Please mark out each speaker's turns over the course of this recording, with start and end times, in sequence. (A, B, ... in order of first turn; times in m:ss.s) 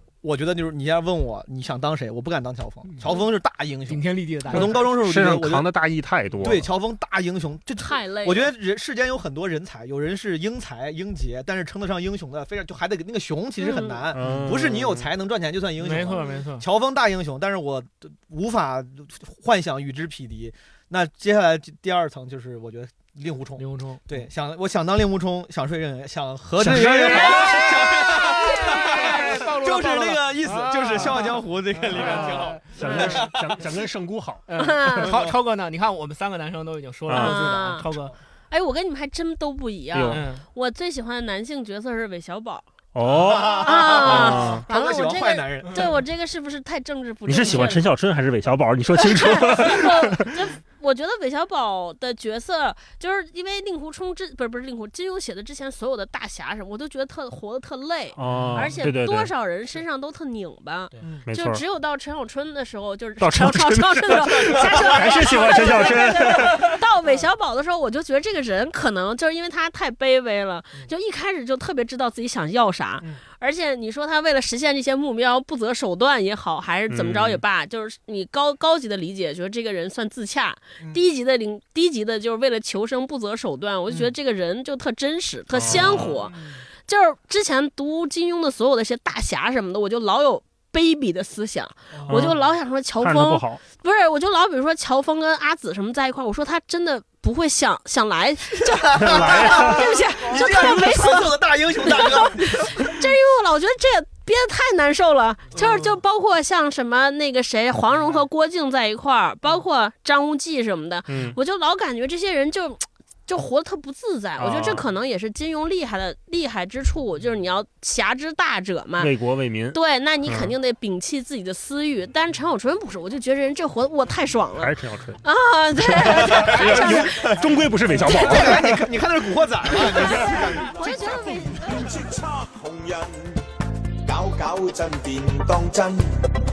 0:00.2-0:05.7 A
0:03.9-0:04.9 B
0:04.5-0:06.7 C
0:06.4-0:33.7 A
0:07.8-0:08.5 D
0:13.6-0:14.0 D
0:14.1-0:15.1 C
0:14.2-0:14.6 B
0:15.8-0:16.7 B
0:23.6-0:24.2 B
0:26.6-0:27.6 C
0:26.6-0:33.3 B
0:32.0-0:34.5 C
0:34.5-0:38.1 B
0:34.6-0:35.1 D
0:35.1-0:35.4 A
0:37.1-0:37.5 C
0:37.1-0:37.9 D
0:38.5-0:42.7 D
0:39.9-0:40.3 C
0:40.1-0:40.4 B
0:43.0-0:44.6 C
0:43.1-0:45.9 A
0:43.6-0:47.9 D
0:47.3-0:50.3 C
0:49.0-1:26.4 D
0:58.2-0:59.3 C
0:58.3-0:58.8 A
1:01.0-1:01.3 A
1:01.3-1:01.6 C
1:03.2-1:06.8 C
1:04.9-1:05.9 A
1:16.9-1:17.4 C
1:25.6-1:26.2 C
1:25.7-1:26.6 A
1:26.9-1:59.1 D
1:31.9-1:32.3 A
1:32.1-1:32.4 C
1:33.0-1:33.6 C
1:38.6-1:43.0 A
1:39.0-1:40.0 C
1:45.5-1:46.0 A
1:51.1-1:51.4 C
1:54.4-1:54.8 C
1:59.0-2:00.5 C
1:59.7-2:07.3 D
2:04.6-2:05.2 C
2:05.9-2:08.8 C
2:06.0-2:11.8 A
2:08.0-2:08.6 D
2:09.7-2:12.0 D
2:11.6-2:13.4 E
2:14.0-2:16.0 E